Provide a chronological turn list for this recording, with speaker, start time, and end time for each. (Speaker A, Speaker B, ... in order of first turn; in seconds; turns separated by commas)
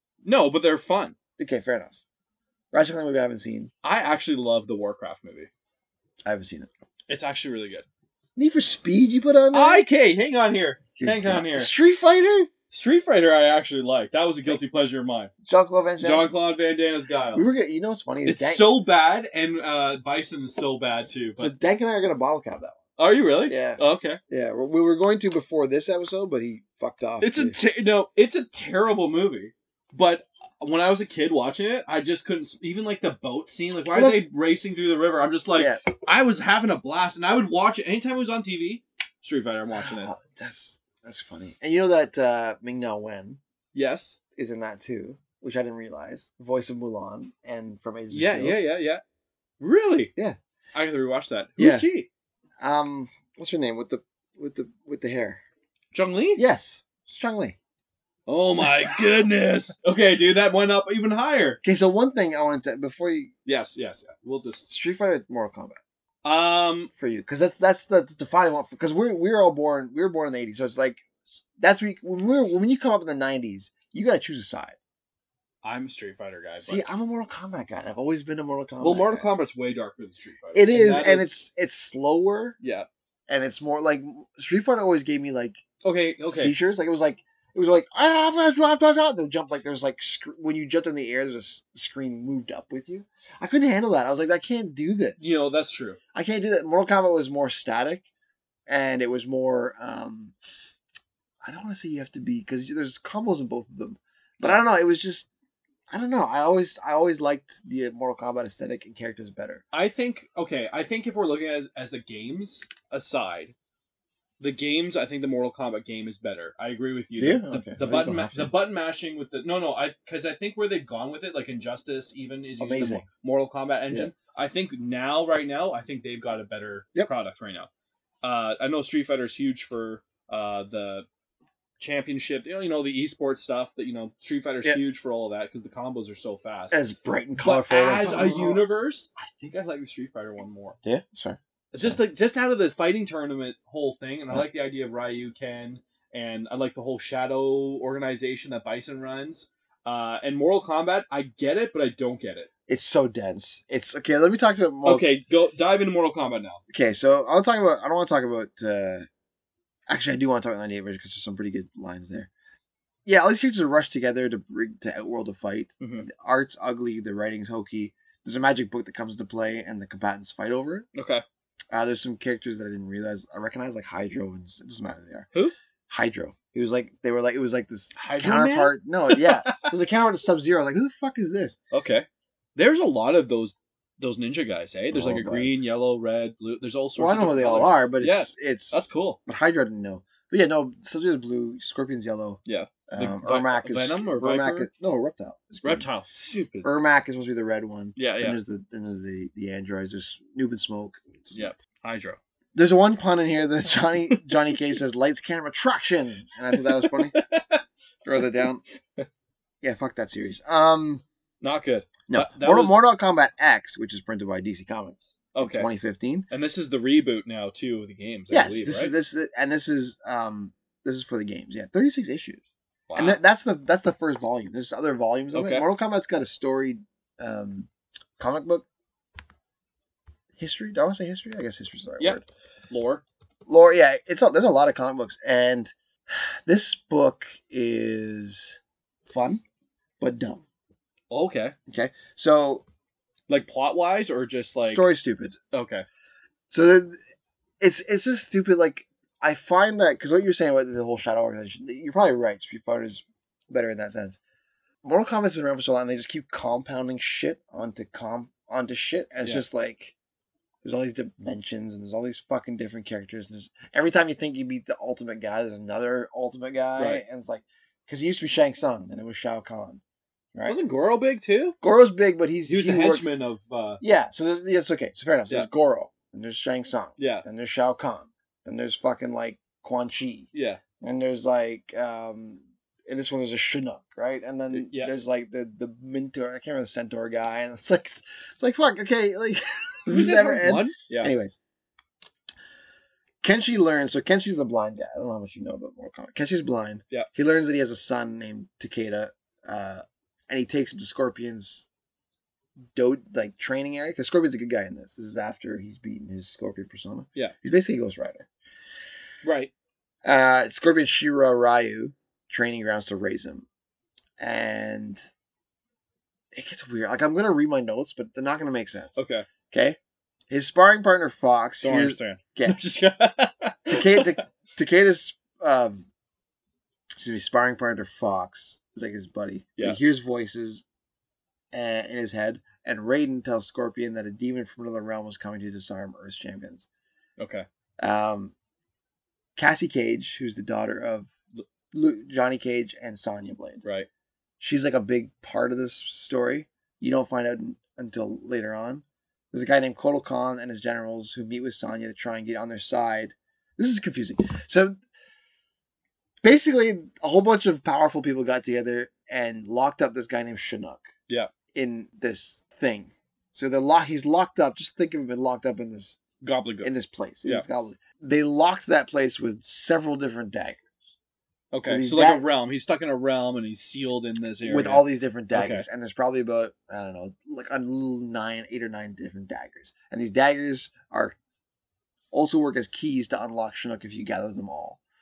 Speaker A: 0.2-1.2, Speaker B: 1.4-1.9, Speaker B: 2.7-3.7, Speaker A: 3.8-5.5, Speaker B: 6.2-6.7, Speaker A: 7.1-7.9, Speaker B: 8.4-9.9, Speaker A: 9.5-11.7, Speaker B: 11.0-12.5, Speaker A: 12.7-15.3, Speaker B: 15.4-16.3, Speaker A: 16.0-17.4, Speaker B: 17.3-18.8, Speaker A: 18.2-21.5, Speaker B: 21.4-22.8, Speaker A: 23.0-24.2, Speaker B: 23.5-27.6, Speaker A: 27.2-40.1, Speaker B: 33.9-34.3, Speaker B: 35.5-35.8, Speaker B: 39.7-43.4, Speaker A: 43.7-44.2, Speaker B: 44.4-48.6, Speaker A: 48.1-49.0, Speaker A: 49.6-50.1, Speaker A: 50.7-52.1, Speaker B: 51.6-51.9, Speaker B: 52.6-55.4, Speaker A: 55.9-56.4, Speaker B: 56.4-57.6, Speaker A: 58.3-61.6, Speaker B: 58.6-59.2, Speaker B: 61.6-63.3, Speaker A: 63.5-64.7, Speaker B: 64.7-65.8, Speaker A: 66.2-66.9, Speaker B: 67.0-71.1, Speaker B: 71.6-74.8, Speaker A: 75.6-76.9, Speaker B: 76.6-79.3, Speaker A: 78.8-81.4, Speaker B: 80.5-82.6, Speaker A: 82.6-82.9, Speaker B: 83.3-85.6, Speaker A: 85.8-86.5, Speaker B: 86.3-95.3, Speaker A: 95.2-96.0, Speaker B: 96.1-98.1, Speaker B: 98.7-100.3, Speaker B: 101.4-105.3, Speaker B: 105.9-109.6, Speaker A: 109.7-113.5, Speaker A: 114.4-127.7, Speaker B: 117.2-118.5, Speaker B: 122.6-123.0, Speaker A: 128.2-131.1, Speaker A: 131.8-136.8, Speaker B: 136.7-138.7, Speaker A: 137.4-140.8, Speaker B: 140.8-142.0, Speaker A: 141.7-152.5, Speaker B: 152.7-155.1, Speaker A: 154.8-156.6, Speaker B: 156.7-159.1, Speaker B: 159.9-162.3, Speaker B: 163.1-170.9, Speaker A: 165.8-166.1, Speaker A: 170.9-171.2, Speaker B: 171.7-175.3, Speaker B: 175.9-181.6, Speaker A: 177.9-179.7, Speaker A: 181.7-189.2, Speaker B: 184.9-185.7, Speaker B: 187.0-195.9, Speaker A: 192.5-194.7, Speaker A: 195.6-196.7, Speaker B: 196.6-201.5, Speaker A: 198.0-198.4, Speaker A: 201.3-202.2, Speaker B: 202.6-207.2, Speaker A: 206.5-207.7, Speaker B: 208.0-208.6, Speaker B: 209.6-211.0, Speaker A: 211.4-212.8, Speaker B: 212.1-216.3, Speaker A: 215.3-215.7, Speaker A: 216.3-218.9, Speaker B: 218.3-228.7, Speaker A: 222.9-223.2, Speaker A: 225.3-225.7, Speaker B: 230.4-232.2, Speaker A: 232.0-233.0, Speaker B: 233.5-239.4, Speaker B: 240.0-240.4, Speaker A: 241.1-241.6, Speaker B: 241.7-242.7, Speaker A: 243.3-244.9, Speaker B: 244.6-245.4, Speaker A: 245.5-245.8, Speaker B: 246.5-247.0, Speaker B: 247.6-254.2, Speaker B: 254.8-259.9, Speaker B: 260.6-269.8, Speaker A: 266.8-267.0, Speaker A: 270.5-271.6, Speaker B: 271.6-273.1, Speaker A: 272.5-273.8, Speaker B: 273.8-291.4, Speaker A: 277.0-277.3, Speaker A: 280.3-280.6, Speaker A: 284.5-284.9, Speaker A: 289.9-291.1, Speaker B: 293.2-301.7, Speaker B: 302.7-308.3, Speaker A: 309.2-309.5, Speaker B: 310.1-313.5, Speaker B: 314.2-315.0, Speaker B: 316.3-319.8, Speaker A: 319.0-319.3, Speaker B: 320.3-322.6, Speaker A: 321.6-324.2, Speaker B: 323.7-325.9, Speaker B: 327.0-330.6, Speaker B: 331.5-336.7, Speaker A: 337.2-337.4, Speaker B: 337.8-338.3, Speaker B: 339.4-341.1, Speaker B: 341.7-343.6, Speaker B: 344.4-354.8, Speaker B: 356.2-360.9, Speaker B: 361.5-366.0, Speaker A: 366.2-367.4, Speaker B: 366.6-370.7, Speaker A: 371.5-375.7, Speaker B: 371.6-372.2, Speaker B: 374.4-381.2, Speaker B: 382.1-384.8